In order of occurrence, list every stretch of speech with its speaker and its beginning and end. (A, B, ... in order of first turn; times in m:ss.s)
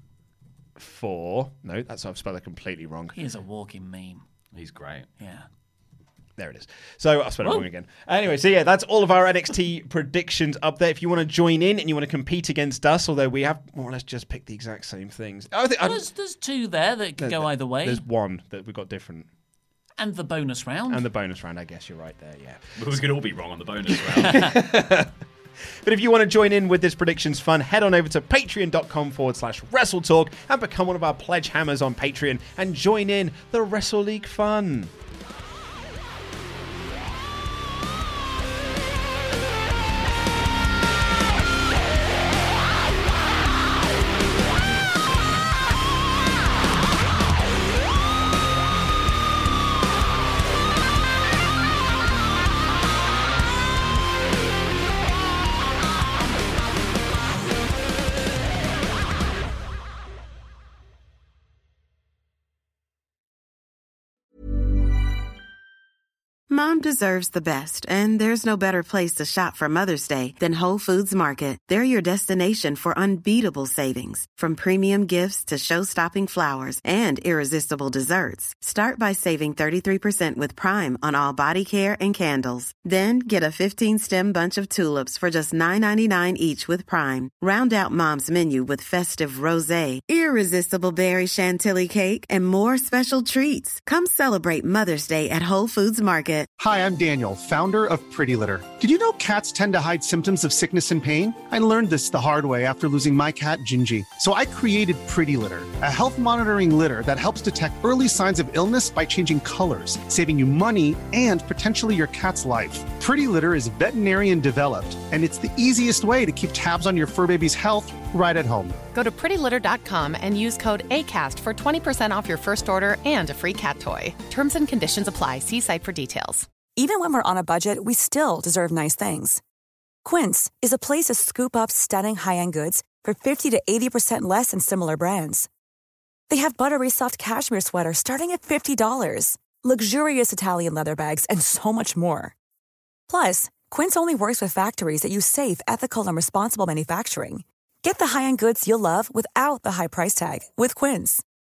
0:00.8-0:03.2 A
0:03.1-0:04.2 B
0:04.5-0:05.1 C
0:05.2-0:05.5 B
0:06.4-0:16.0 A
0:15.8-0:18.0 B
0:17.2-0:19.3 A
0:20.0-0:21.1 B
0:20.9-0:23.0 A
0:22.8-0:24.5 C
0:24.1-0:25.1 A
0:25.8-0:34.9 A
1:06.5-1:36.5 D
1:36.6-1:58.7 E
1:58.9-2:06.5 F
2:06.8-2:09.4 G
2:10.0-2:15.5 G
2:16.3-2:22.3 G
2:23.1-2:31.2 G